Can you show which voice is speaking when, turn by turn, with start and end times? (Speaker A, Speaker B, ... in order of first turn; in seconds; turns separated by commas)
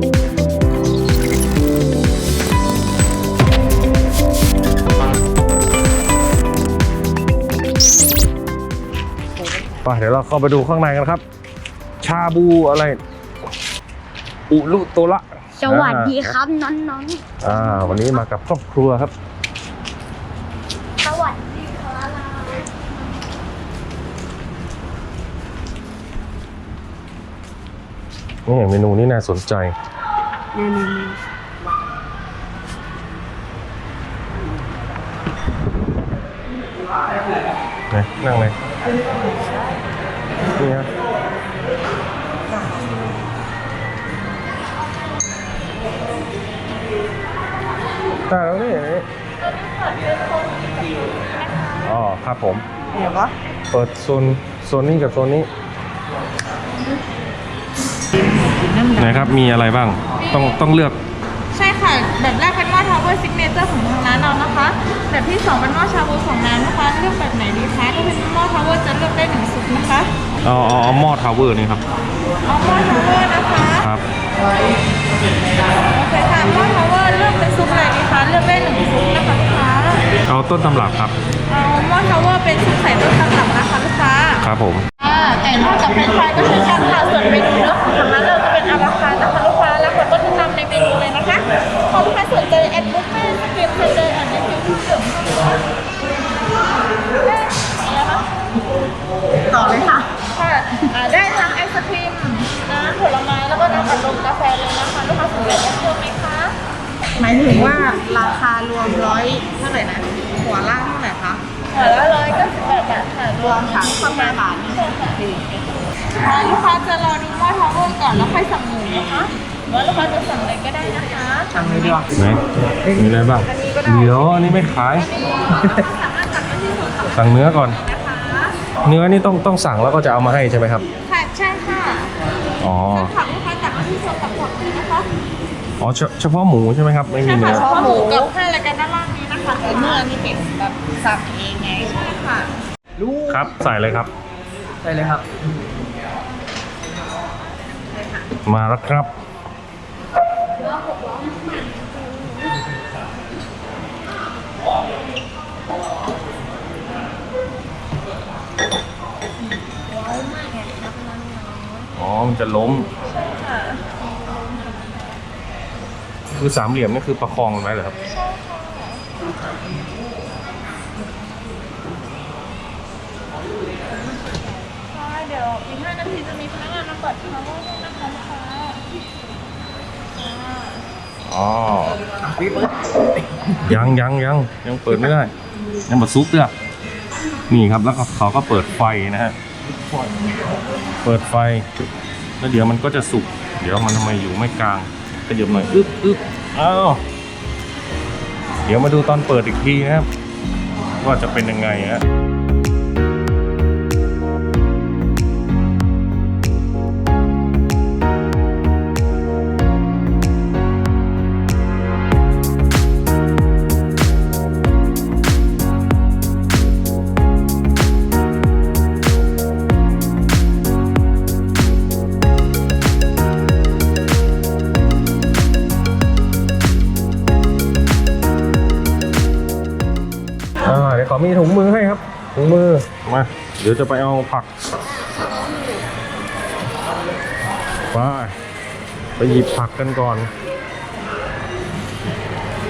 Speaker A: 9.8-11.2, Speaker A: 12.0-13.0, Speaker A: 14.5-16.4, Speaker B: 15.6-17.8, Speaker A: 17.4-19.1, Speaker B: 21.0-22.7, Speaker A: 28.4-29.7, Speaker B: 30.5-31.2, Speaker A: 37.9-38.5, Speaker A: 40.5-40.9, Speaker A: 48.3-49.0, Speaker C: 49.4-51.9, Speaker A: 51.8-52.6, Speaker D: 53.0-53.3, Speaker A: 53.7-55.5, Speaker A: 58.8-61.0, Speaker C: 60.2-60.5, Speaker C: 61.5-70.1, Speaker A: 70.4-71.8, Speaker C: 72.4-73.9, Speaker A: 73.8-74.0, Speaker C: 75.7-80.1, Speaker A: 80.2-81.2, Speaker C: 81.5-84.4, Speaker A: 84.4-84.9, Speaker C: 85.0-95.6, Speaker C: 97.1-98.3, Speaker D: 99.5-100.0, Speaker C: 99.5-106.5, Speaker D: 107.2-111.4, Speaker C: 111.7-122.1, Speaker D: 113.4-114.8, Speaker A: 122.1-125.1, Speaker D: 123.6-123.8, Speaker C: 125.0-127.1, Speaker A: 127.1-127.8, Speaker C: 127.7-128.5, Speaker A: 128.8-130.8, Speaker C: 131.0-132.1, Speaker A: 132.6-133.1, Speaker C: 132.9-135.1, Speaker A: 135.8-137.9, Speaker C: 137.2-140.1, Speaker D: 137.4-138.2, Speaker D: 139.7-141.8, Speaker C: 141.7-142.5, Speaker D: 143.0-143.3, Speaker A: 143.2-144.1, Speaker D: 144.8-145.2, Speaker A: 148.4-149.1, Speaker C: 160.1-161.9, Speaker A: 161.9-162.9, Speaker C: 163.0-165.0, Speaker A: 166.4-168.0, Speaker C: 168.1-169.1, Speaker C: 174.3-178.9, Speaker C: 180.1-180.8, Speaker A: 181.3-182.0, Speaker D: 182.3-182.7, Speaker A: 183.6-185.3, Speaker A: 185.9-186.5, Speaker A: 187.5-189.3, Speaker A: 191.0-191.7, Speaker A: 192.4-197.0, Speaker A: 198.7-200.1, Speaker A: 201.0-202.0, Speaker A: 230.6-234.5, Speaker A: 237.9-238.3, Speaker A: 239.2-240.3